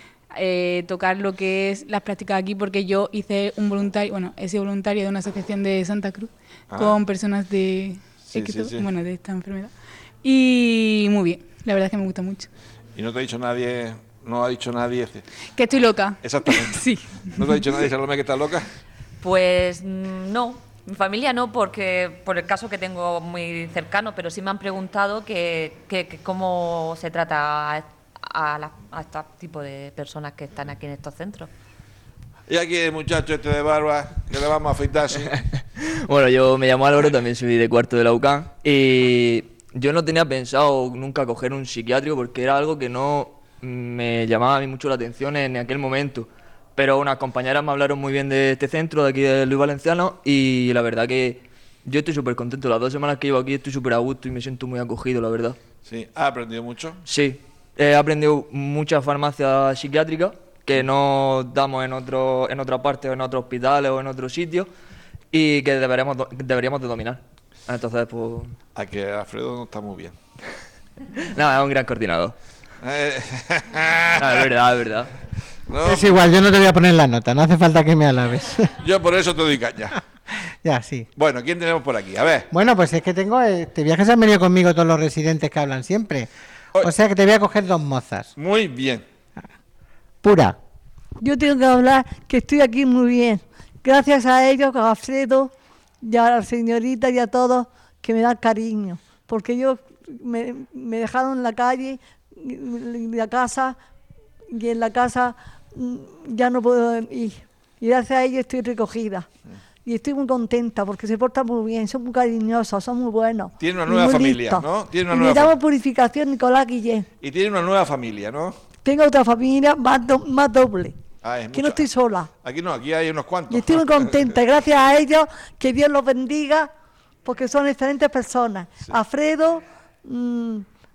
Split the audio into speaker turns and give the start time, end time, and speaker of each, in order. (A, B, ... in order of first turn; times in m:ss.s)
0:00.3-0:09.7 A
0:06.7-0:07.0 B
0:08.2-0:08.9 B
0:10.2-0:12.5 A
0:13.0-0:15.2 B
0:15.6-0:17.8 A
0:16.2-0:18.7 B
0:19.2-0:31.5 C
0:32.5-0:35.4 B
0:35.8-0:55.6 D
0:55.8-0:57.0 B
0:57.1-1:04.7 D
1:05.3-1:08.6 D
1:08.8-1:10.2 B
1:11.3-1:12.4 D
1:12.8-1:14.6 B
1:14.2-1:15.1 D
1:15.7-1:16.1 B
1:15.8-1:18.7 E
1:18.8-1:20.0 B
1:20.6-1:21.1 E
1:21.2-1:22.5 B
1:22.5-1:26.3 E
1:26.8-1:28.3 E
1:28.4-1:29.0 B
1:30.2-1:30.6 E
1:31.2-1:43.8 F
1:44.5-1:49.3 F
1:49.8-1:57.1 F
1:53.6-1:55.6 B
1:57.2-1:58.6 B
1:58.8-2:01.0 F
2:01.2-2:01.9 B
2:01.5-2:02.3 F
2:02.4-2:04.2 B
2:03.5-2:06.7 F
2:07.2-2:10.7 F